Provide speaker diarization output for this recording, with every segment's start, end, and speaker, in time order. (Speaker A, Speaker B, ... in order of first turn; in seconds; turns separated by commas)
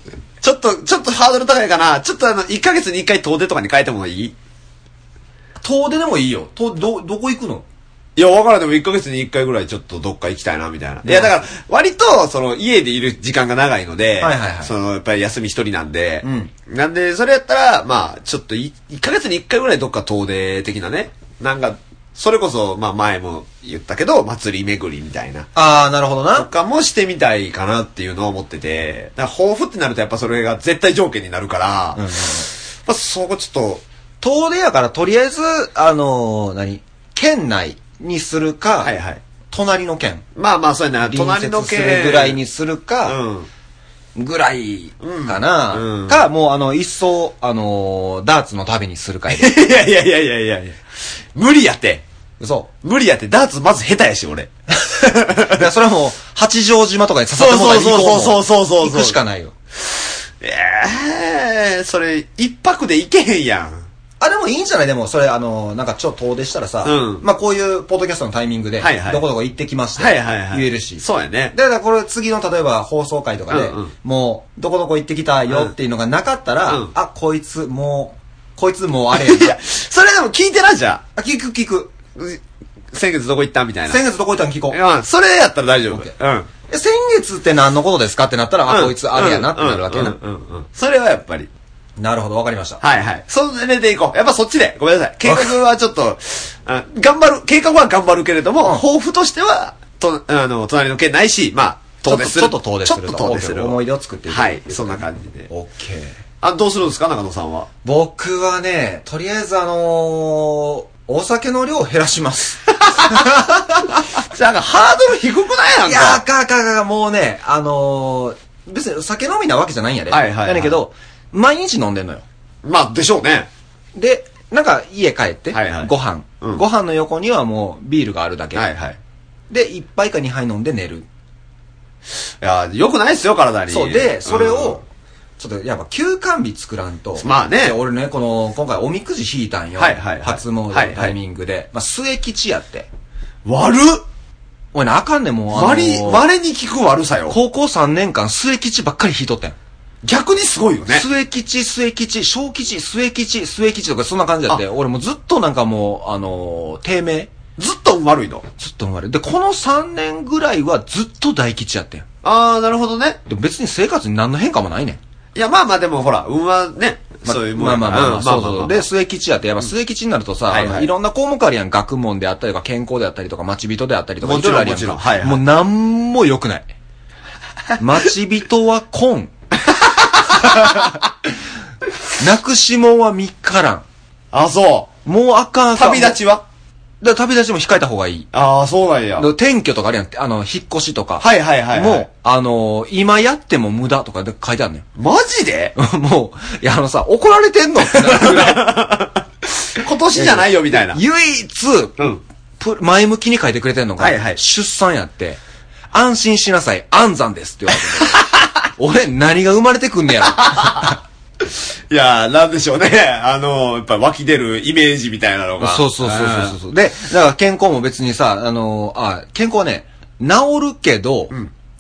Speaker A: 0.4-4.3, Speaker B: 5.6-7.7, Speaker A: 8.2-25.5, Speaker B: 11.1-11.3, Speaker B: 14.2-14.7, Speaker B: 16.2-16.5, Speaker B: 25.6-26.5, Speaker A: 26.4-33.8, Speaker B: 32.0-32.5, Speaker B: 34.2-38.9, Speaker A: 38.8-39.2, Speaker B: 39.5-40.2, Speaker A: 40.4-42.4, Speaker B: 41.0-43.2, Speaker A: 43.0-43.5, Speaker B: 44.2-49.6, Speaker A: 45.0-46.2, Speaker A: 49.3-50.8, Speaker A: 51.3-52.0, Speaker B: 52.4-52.7, Speaker A: 52.8-55.6, Speaker B: 55.4-59.5, Speaker A: 57.4-59.2, Speaker A: 60.4-63.9, Speaker B: 64.2-79.6, Speaker A: 66.8-67.2, Speaker A: 68.8-69.2, Speaker A: 70.0-71.5, Speaker A: 73.5-73.9, Speaker A: 75.5-75.7, Speaker A: 79.1-81.0, Speaker B: 81.2-81.9, Speaker A: 82.9-84.0, Speaker B: 83.9-84.8, Speaker A: 84.7-86.5, Speaker B: 86.7-90.2, Speaker A: 88.7-91.5, Speaker B: 92.0-92.8, Speaker A: 92.8-105.5, Speaker B: 95.2-95.6, Speaker B: 102.0-106.2, Speaker A: 106.4-107.7, Speaker B: 107.8-113.8, Speaker A: 112.8-116.2, Speaker B: 115.8-122.2, Speaker A: 120.1-120.8, Speaker A: 122.6-123.5, Speaker B: 124.0-128.7, Speaker A: 125.5-126.6, Speaker A: 128.5-129.0, Speaker B: 129.5-131.1, Speaker A: 132.4-134.8, Speaker B: 133.7-134.8, Speaker B: 135.4-142.9, Speaker A: 137.2-137.8, Speaker A: 139.8-141.2, Speaker A: 143.4-144.0, Speaker B: 144.7-146.3, Speaker A: 145.5-147.4, Speaker B: 147.3-149.6, Speaker A: 150.0-151.1, Speaker B: 150.9-157.3, Speaker A: 157.6-158.5, Speaker B: 158.6-162.1, Speaker A: 162.2-163.2, Speaker B: 163.3-165.0, Speaker A: 165.3-168.8, Speaker B: 167.2-176.7, Speaker A: 170.5-170.9, Speaker A: 174.2-175.4, Speaker B: 177.8-179.3, Speaker A: 179.7-181.0, Speaker B: 180.4-180.9, Speaker B: 182.2-183.8, Speaker A: 184.3-184.9, Speaker B: 185.1-186.2, Speaker A: 185.8-186.4, Speaker B: 187.0-188.3, Speaker A: 188.3-189.3, Speaker B: 189.2-194.9, Speaker A: 191.2-192.1, Speaker A: 195.0-195.8, Speaker B: 195.8-198.8, Speaker A: 197.9-201.0, Speaker B: 200.2-202.1, Speaker B: 202.6-205.4, Speaker A: 204.0-204.4, Speaker B: 205.9-211.0, Speaker A: 208.0-208.5, Speaker A: 210.3-211.0, Speaker A: 211.9-216.6, Speaker B: 215.6-221.3